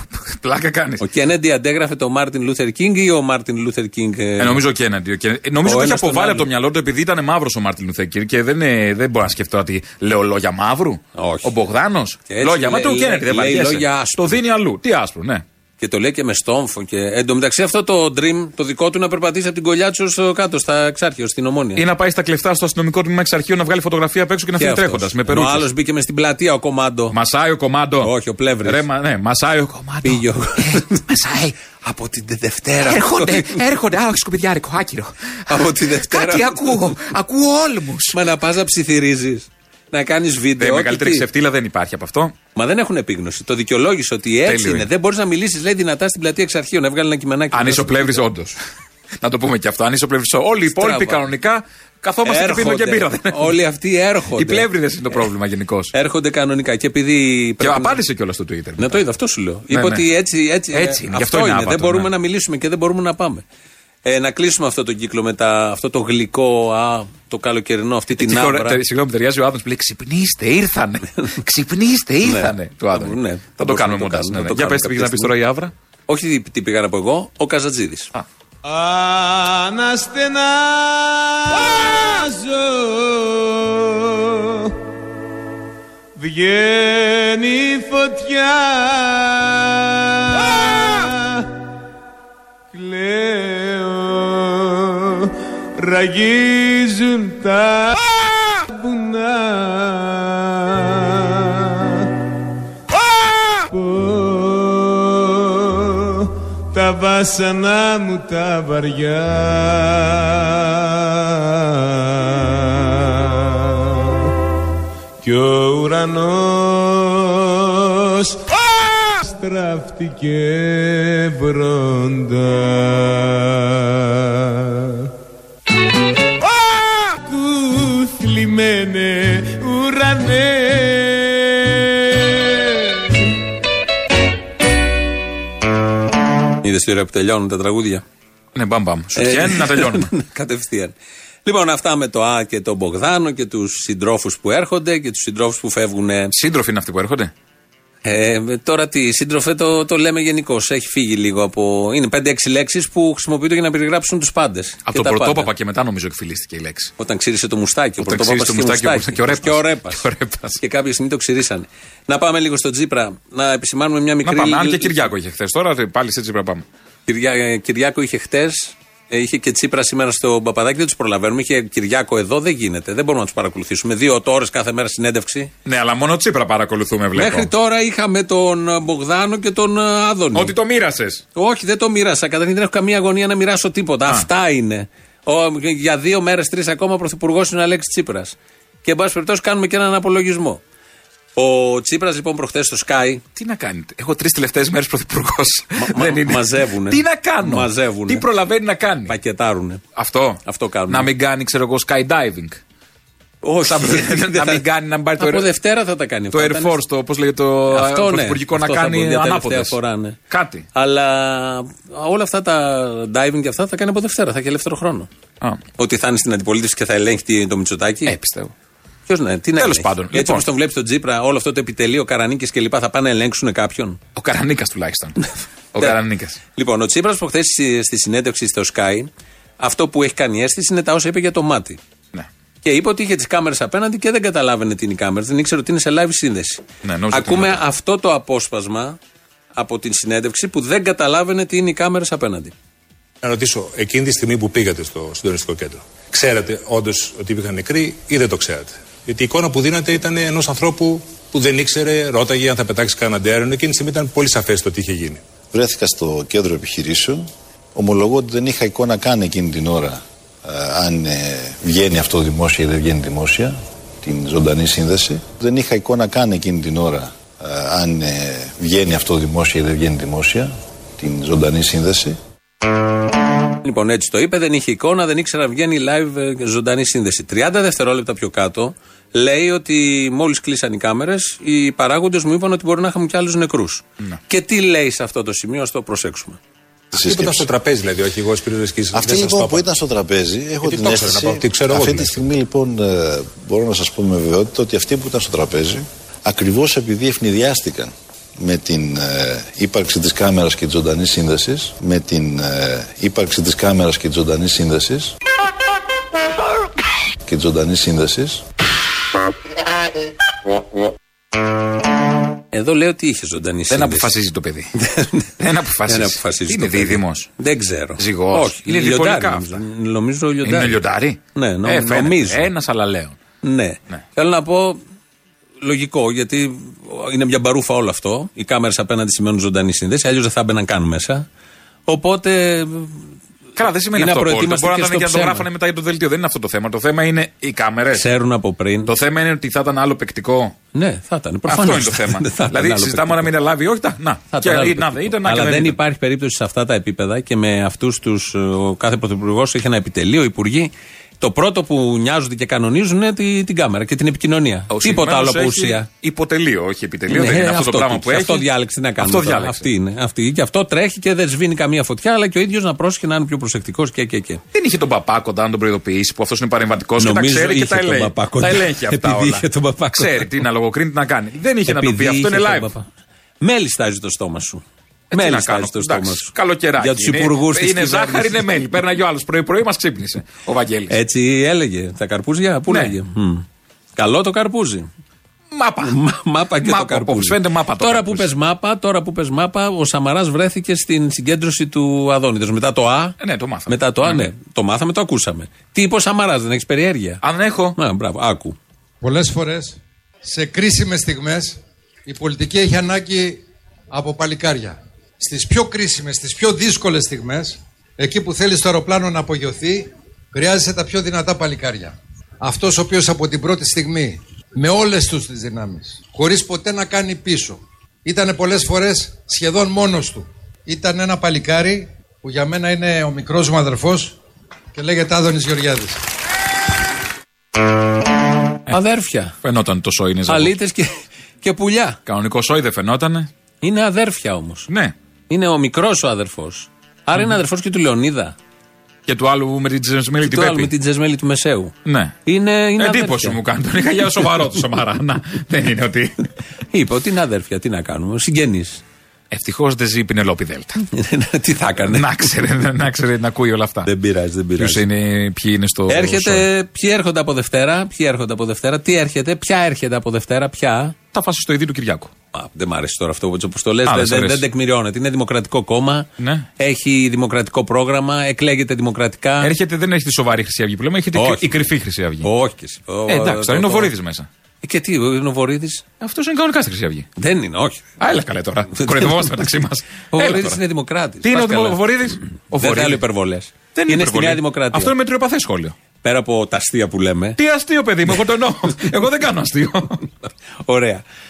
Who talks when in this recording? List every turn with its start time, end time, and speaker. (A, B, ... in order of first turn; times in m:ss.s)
0:00.2-0:01.0 A
0:01.0-0:04.6 B
0:04.4-0:15.4 A
0:05.6-0:06.5 B
0:11.2-0:11.5 B
0:12.3-0:14.4 B
0:15.8-0:21.8 B
0:21.8-0:25.7 A
0:24.6-0:27.2 B
0:27.1-0:28.1 A
0:28.0-0:28.8 B
0:28.6-0:31.6 A
0:30.0-0:31.0 B
0:31.8-0:33.6 B
0:32.8-0:38.2 A
0:35.5-0:36.9 B
0:38.1-0:41.2 B
0:40.6-0:42.3 A
0:42.5-0:48.2 B
0:44.4-0:44.9 A
0:47.5-0:48.6 A
0:49.2-0:53.6 A
0:50.7-0:51.2 B
0:52.2-0:54.6 B
0:54.4-0:55.9 A
0:55.9-0:58.0 B
0:57.6-0:59.0 A
0:58.8-1:03.4 B
0:59.7-1:00.0 A
1:00.7-1:02.1 A
1:04.0-1:08.8 B
1:08.1-1:15.7 A
1:12.2-1:15.3 B
1:16.1-1:18.1 B
1:18.6-1:24.7 C
1:26.2-1:31.5 C
1:32.7-1:42.1 C
1:43.6-1:54.3 C
1:55.2-1:58.6 C
1:59.1-2:05.1 C
2:07.1-2:13.0 C
2:16.6-2:18.0 B
2:18.5-2:20.1 A
2:19.2-2:20.9 B
2:21.4-2:26.3 B
2:26.3-2:27.3 A
2:28.0-2:35.5 B
2:34.9-2:36.9 A
2:37.0-2:40.0 B
2:38.0-2:40.6 A
2:40.6-2:45.1 B
2:44.2-2:46.6 A
2:47.1-2:55.5 B
2:55.6-2:57.5 A
2:57.1-3:00.5 B
3:00.3-3:01.2 A
3:01.3-3:10.6 B
3:11.4-3:13.2 B
3:13.4-3:19.2 A
3:15.8-3:18.2 B
3:19.1-3:19.8 B
3:19.9-3:22.6 A
3:20.4-3:21.1 B
3:23.4-3:24.6 B
3:23.6-3:25.5 A
3:25.2-3:26.8 B
3:26.3-3:29.8 A
3:27.7-3:30.2 B
3:30.3-3:30.6 A
3:30.7-3:35.1 B
3:35.8-3:38.1 B
3:38.0-3:38.5 A
3:39.1-3:44.0 B
3:39.6-3:40.5 A
3:44.2-3:46.4 A
3:46.6-3:51.8 B
3:52.6-3:59.0 B
3:56.8-3:57.6 A
3:59.6-4:02.5 B
4:03.2-4:15.2 D
4:15.5-4:32.2 E
4:33.6-4:46.4 B
4:46.9-4:47.5 E
4:46.9-4:49.6 D
4:48.9-5:05.1 E
4:50.6-4:52.2 D
5:07.2-5:08.4 E
5:12.5-5:14.1 B
5:13.7-5:14.7 A
5:14.8-5:15.3 B
5:15.4-5:17.3 A
5:15.9-5:20.8 B
5:18.0-5:19.6 A
5:20.4-5:23.2 A
5:21.3-5:22.5 B
5:23.4-5:24.8 B
5:25.6-5:31.2 B
5:31.9-5:33.0 B
5:33.6-5:38.0 A
5:33.9-5:35.4 B
5:37.9-5:38.9 B
5:38.8-5:40.5 A
5:40.7-5:43.3 B
5:41.5-5:45.8 A
5:44.3-5:55.9 B
5:54.7-5:58.5 A
5:57.1-6:04.4 B
5:59.0-5:59.7 A
6:04.5-6:12.7 A
6:07.0-6:10.3 B
6:11.6-6:12.9 B
6:13.4-6:18.6 B
6:15.1-6:20.9 A
6:20.9-6:23.4 B
6:22.7-6:22.9 A
6:24.0-6:24.9 B
6:25.5-6:26.0 A
6:25.8-6:33.1 B
6:26.6-6:28.3 A
6:33.2-6:34.3 A
6:33.7-6:37.2 B
6:37.2-6:37.8 A
6:37.8-6:38.6 B
6:39.0-7:04.2 F
7:04.7-7:06.0 F
7:08.7-7:09.4 B
7:09.4-7:10.5 A
7:10.3-7:12.0 B
7:12.0-7:13.3 A
7:13.6-7:14.7 B
7:14.7-7:14.9 A
7:15.3-7:18.4 B
7:19.1-7:20.7 A
7:20.2-7:21.7 B
7:21.8-7:22.2 A
7:22.2-7:23.4 B
7:22.8-7:26.3 A
7:26.7-7:28.8 B
7:29.3-7:30.8 A
7:30.9-7:32.1 B
7:31.9-7:33.9 A
7:33.8-7:34.8 B
7:34.6-7:36.4 A
7:35.9-7:41.0 B
7:41.1-7:42.1 A
7:42.3-7:46.1 B
7:43.8-7:44.4 A
7:46.2-7:46.5 A
7:46.6-7:49.5 B
7:49.4-7:52.3 A
7:51.1-7:51.6 B
7:52.2-7:53.9 B
7:53.1-7:54.3 A
7:54.6-7:55.8 B
7:56.0-7:57.1 A
7:57.2-7:57.8 B
7:58.0-8:00.6 A
7:58.8-7:59.5 B
8:00.1-8:01.9 B
8:01.2-8:03.0 A
8:02.5-8:04.9 B
8:03.7-8:05.7 A
8:06.0-8:07.4 B
8:07.4-8:10.0 A
8:10.6-8:11.0 B